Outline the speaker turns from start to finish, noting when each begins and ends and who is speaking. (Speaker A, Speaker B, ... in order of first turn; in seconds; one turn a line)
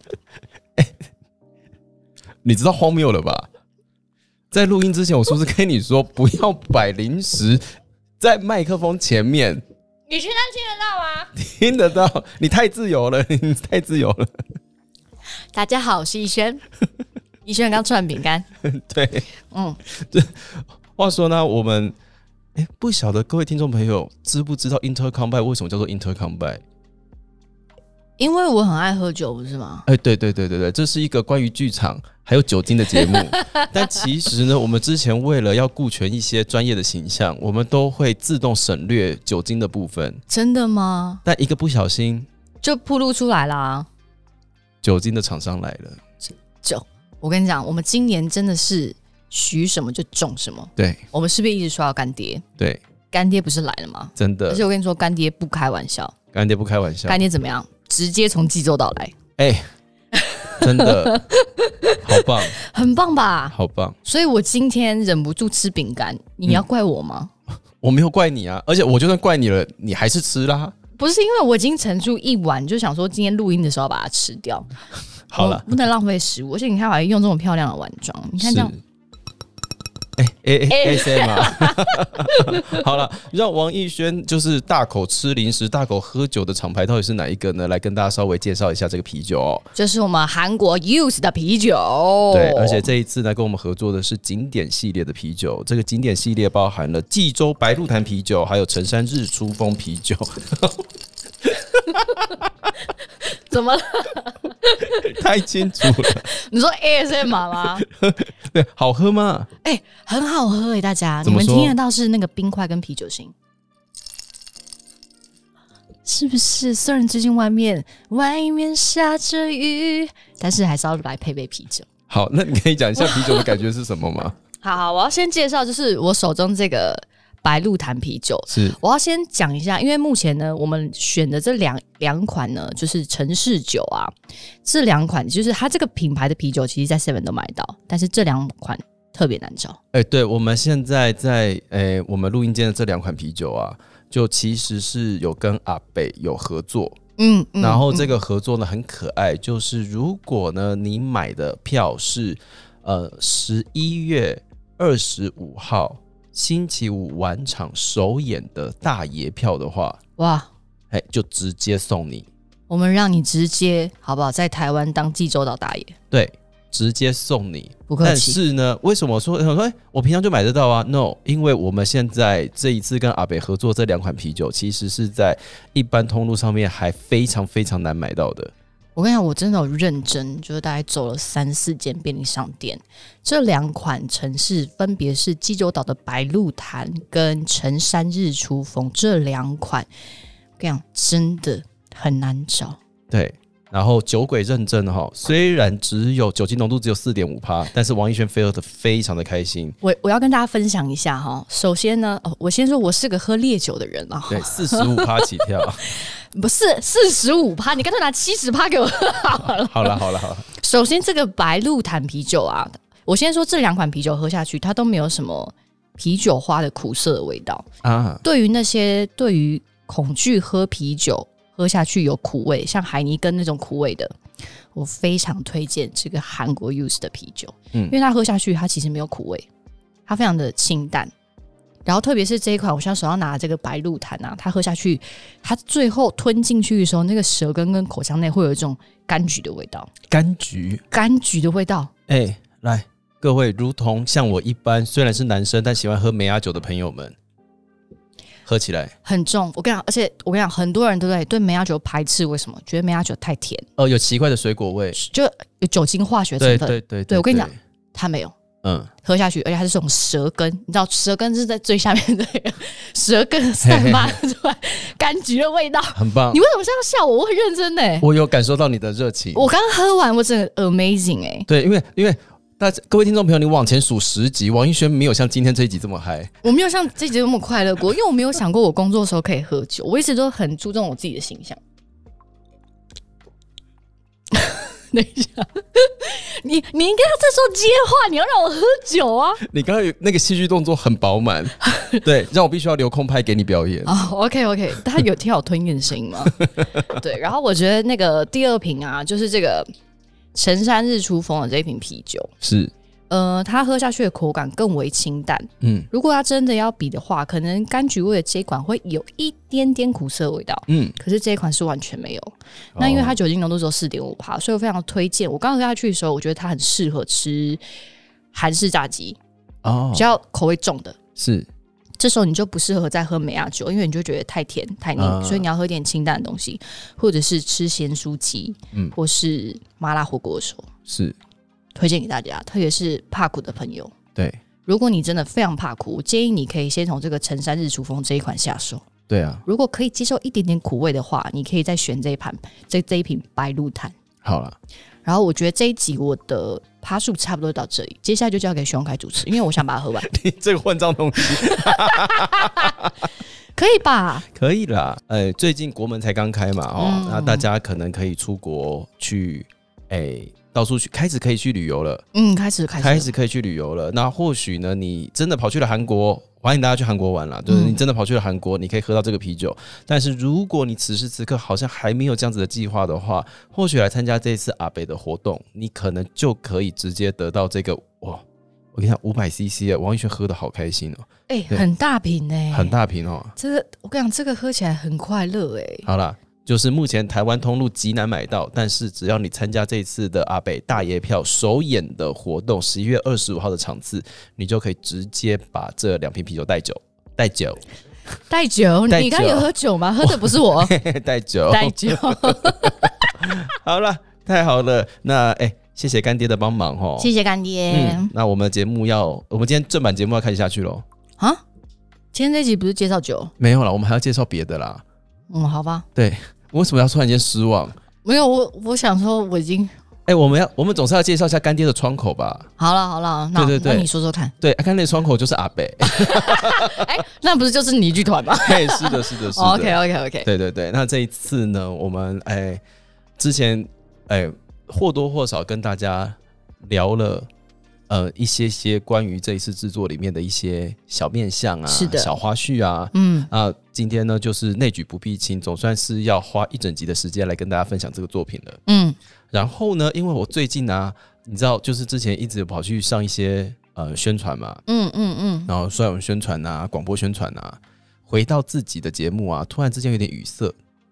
Speaker A: 2.4-3.5
Speaker A: 4.5-7.6
Speaker A: 8.2-9.6
Speaker B: 10.1-11.3
Speaker A: 11.3-14.4
Speaker B: 15.5-16.6
Speaker B: 17.4-18.5
Speaker A: 18.6-19.3
Speaker B: 19.5-19.8
Speaker A: 19.9-22.0
Speaker A: 22.6-26.6
Speaker B: 28.2-29.9
Speaker A: 29.9-40.2
Speaker B: 33.1-33.7
Speaker B: 40.3-41.2
Speaker A: 41.2-42.3
Speaker B: 42.6-43.9
Speaker A: 44.8-46.0
Speaker B: 46.6-52.4
Speaker A: 50.8-51.0
Speaker B: 53.1-56.2
Speaker A: 54.2-54.6
Speaker A: 56.3-57.2
Speaker B: 57.1-59.1
Speaker A: 59.4-59.7
Speaker B: 60.2-67.3
Speaker A: 60.6-61.2
Speaker A: 62.0-62.6
Speaker A: 63.5-64.0
Speaker A: 67.8-70.7
Speaker B: 71.0-74.7
Speaker A: 75.3-75.7
Speaker B: 75.3-78.7
Speaker A: 78.4-78.8
Speaker A: 80.2-89.7
Speaker B: 80.7-82.8
Speaker B: 89.8-92.8
Speaker A: 92.3-100.9
Speaker A: 101.4-102.5
Speaker B: 103.2-105.1
Speaker A: 105.0-106.3
Speaker B: 105.9-107.9
Speaker A: 107.6-109.5
Speaker B: 109.6-113.3
Speaker A: 111.2-111.8
Speaker B: 116.0-121.9
Speaker A: 122.1-124.4
Speaker B: 123.0-123.4
Speaker B: 124.6-134.1
Speaker A: 128.5-128.8
Speaker B: 134.6-139.8
Speaker A: 139.9-147.0
Speaker B: 147.2-148.1
Speaker A: 147.6-160.0
Speaker B: 160.2-160.5
Speaker A: 160.9-162.3
Speaker B: 162.7-165.9
Speaker A: 166.1-178.5
Speaker B: 167.9-168.4
Speaker B: 179.0-189.9
Speaker B: 190.6-192.8
Speaker A: 193.1-199.8
Speaker B: 199.8-205.3
Speaker A: 204.3-205.8
Speaker B: 205.8-210.0
Speaker A: 209.7-210.5
Speaker B: 210.6-217.7
Speaker A: 217.8-218.2
Speaker B: 218.2-224.2
Speaker B: 224.7-229.5
Speaker B: 230.1-231.1
Speaker B: 231.8-239.9
Speaker A: 240.1-240.8
Speaker B: 240.9-241.9
Speaker A: 242.1-247.2
Speaker A: 248.5-248.9
Speaker B: 249.0-253.7
Speaker A: 253.8-255.0
Speaker B: 254.9-258.3
Speaker A: 256.4-257.6
Speaker A: 258.6-258.9
Speaker B: 259.0-268.1
Speaker A: 263.6-264.2
Speaker A: 265.9-266.4
Speaker A: 268.0-269.5
Speaker B: 269.3-271.5
Speaker A: 271.5-276.3
Speaker B: 276.4-281.6
Speaker B: 284.3-289.4
Speaker A: 289.4-294.0
Speaker B: 291.6-292.0
Speaker B: 293.9-299.7
Speaker A: 296.4-296.8
Speaker B: 300.4-302.3
Speaker A: 302.4-302.7
Speaker B: 303.1-317.6
Speaker A: 305.6-305.9
Speaker A: 310.7-311.0
Speaker A: 312.8-313.2
Speaker B: 318.3-319.2
Speaker A: 319.6-320.1
Speaker B: 319.9-321.0
Speaker A: 321.2-321.5
Speaker B: 322.0-330.7
Speaker A: 325.0-325.5
Speaker A: 330.9-331.2
Speaker B: 331.8-333.9
Speaker B: 334.7-338.9
Speaker A: 339.1-339.4
Speaker B: 339.5-343.9
Speaker A: 344.2-344.6
Speaker B: 345.1-350.1
Speaker A: 350.1-353.1
Speaker B: 351.5-352.7
Speaker B: 353.6-354.2
Speaker A: 354.3-362.0
Speaker B: 356.8-357.5
Speaker B: 362.1-363.1
Speaker A: 362.8-378.2
Speaker B: 367.5-367.8
Speaker A: 378.7-381.6
Speaker B: 381.3-382.8
Speaker A: 382.5-383.4
Speaker B: 383.4-385.9
Speaker A: 385.9-397.6
Speaker B: 398.3-400.8
Speaker A: 398.9-407.1
Speaker B: 401.5-403.1
Speaker B: 407.0-408.1
Speaker A: 407.7-410.9
Speaker B: 412.1-413.3
Speaker A: 413.4-414.8
Speaker B: 415.3-415.9
Speaker A: 415.9-417.8
Speaker B: 418.0-419.7
Speaker A: 420.1-422.5
Speaker B: 422.6-424.3
Speaker A: 423.4-423.9
Speaker A: 424.4-426.9
Speaker B: 425.9-430.3
Speaker A: 428.4-432.6
Speaker A: 433.2-437.3
Speaker A: 437.9-448.6
Speaker B: 441.7-442.1
Speaker B: 442.9-443.3
Speaker B: 448.7-449.0
Speaker A: 449.3-454.6
Speaker B: 454.7-455.5
Speaker A: 455.5-460.6